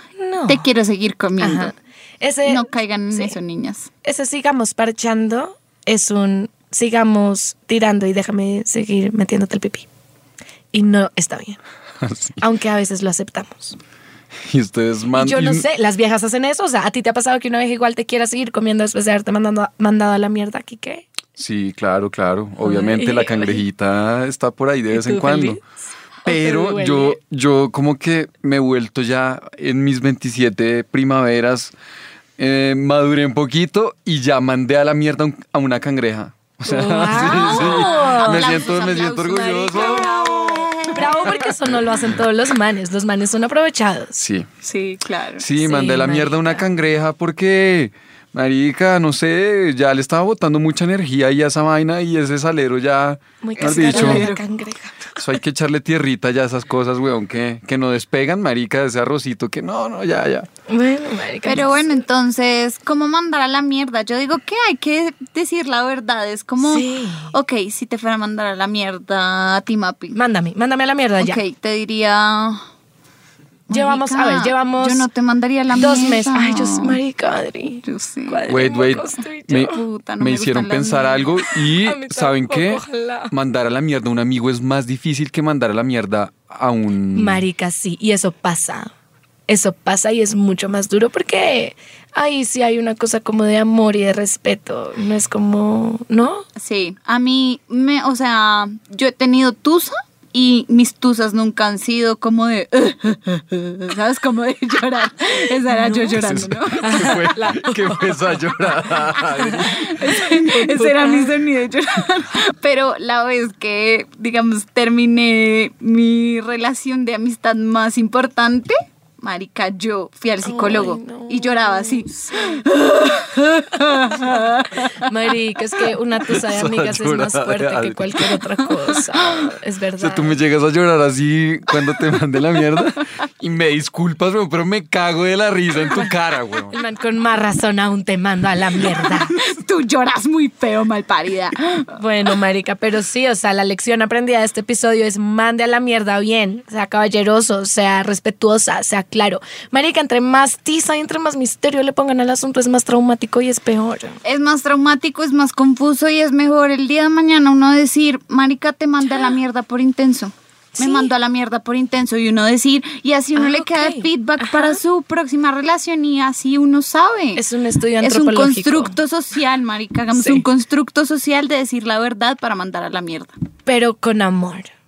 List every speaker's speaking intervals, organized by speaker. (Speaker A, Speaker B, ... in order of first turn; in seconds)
Speaker A: 0.2-0.7, 1.4-3.4, 4.0-9.9, 10.7-11.6, 12.4-13.8, 15.2-21.1, 22.6-23.6, 24.9-25.6, 26.2-27.2, 36.6-38.6, 39.7-44.2, 45.6-46.7, 53.4-55.2, 60.7-62.0, 66.6-67.3, 70.1-71.4, 73.7-75.1, 75.7-79.8, 81.8-83.3, 87.2-88.9, 89.5-96.5, 105.7-106.2, 106.8-108.3, 109.2-111.3, 120.4-122.7, 124.0-130.4, 136.7-139.3, 141.9-154.2, 160.8-161.1, 163.3-164.8, 167.4-169.0, 170.1-170.4, 173.7-174.7
Speaker B: 0.5-1.7, 2.5-3.9, 37.0-41.5, 44.6-45.5, 53.6-54.4, 61.4-70.2, 71.2-72.6, 73.7-77.0, 77.8-78.7, 79.6-81.5, 96.6-107.1, 109.8-124.9, 138.8-142.3, 154.2-167.4, 168.0-173.3
Speaker C: 12.0-12.4, 14.4-15.7, 21.4-25.6, 26.2-31.7, 32.4-40.5, 44.1-44.5, 45.4-54.3, 55.2-60.5, 78.5-87.4, 106.1-109.9, 126.3-128.4, 130.0-136.8